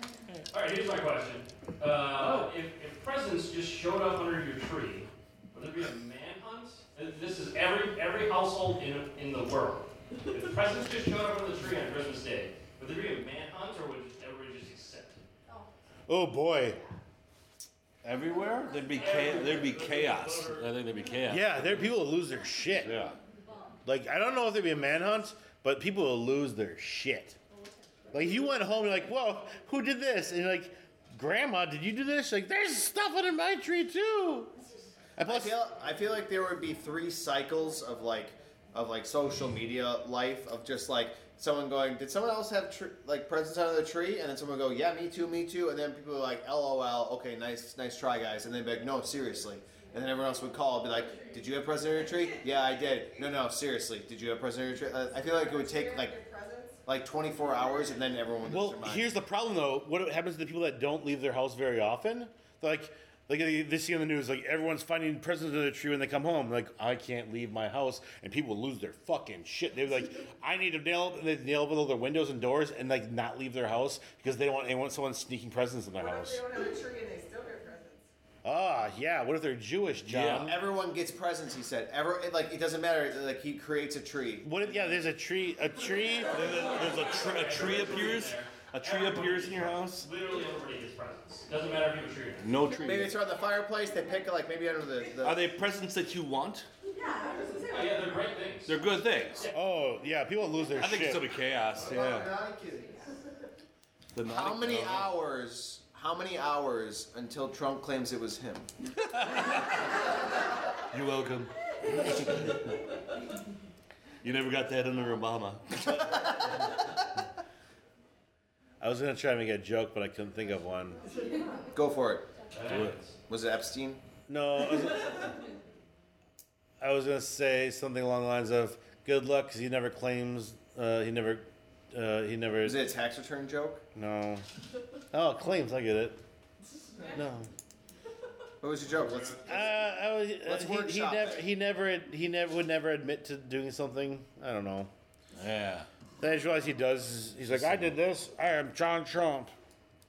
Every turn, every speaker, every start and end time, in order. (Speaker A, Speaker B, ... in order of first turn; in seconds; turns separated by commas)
Speaker A: 0.5-15.2, Speaker B: 16.1-16.8, Speaker C: 18.0-21.9, Speaker D: 18.7-19.4, Speaker A: 18.9-20.9, Speaker B: 21.3-23.0, Speaker C: 22.8-23.2, Speaker D: 23.3-23.6, Speaker B: 23.9-27.4, Speaker B: 28.1-34.6, Speaker B: 35.2-35.6, Speaker E: 35.2-56.1, Speaker D: 55.2-56.8, Speaker E: 56.9-59.1, Speaker B: 58.5-76.4, Speaker D: 76.0-78.1, Speaker B: 78.4-80.6, Speaker C: 80.0-80.5, Speaker E: 80.4-84.5, Speaker B: 84.4-86.6, Speaker C: 86.3-90.1, Speaker A: 86.7-92.6, Speaker C: 92.4-93.2, Speaker E: 92.8-95.5, Speaker C: 95.2-96.7, Speaker D: 96.9-98.0, Speaker A: 97.6-98.8, Speaker C: 98.7-99.5, Speaker A: 99.3-99.6, Speaker B: 99.5-101.3, Speaker C: 100.8-102.3, Speaker E: 101.8-103.0, Speaker C: 104.1-105.2, Speaker E: 104.2-108.7, Speaker C: 109.1-109.8, Speaker C: 110.9-112.7, Speaker C: 114.2-116.3, Speaker B: 118.8-121.0, Speaker E: 121.7-122.3, Speaker A: 122.5-123.2, Speaker C: 122.6-123.0, Speaker E: 123.3-124.0, Speaker B: 124.3-125.3, Speaker B: 126.8-132.8, Speaker E: 132.6-133.8, Speaker B: 133.9-134.4, Speaker B: 135.1-136.2, Speaker B: 137.0-137.5, Speaker E: 138.6-139.7, Speaker B: 139.4-144.9, Speaker E: 140.4-141.5, Speaker C: 145.3-145.9, Speaker B: 146.2-149.5, Speaker C: 147.5-148.0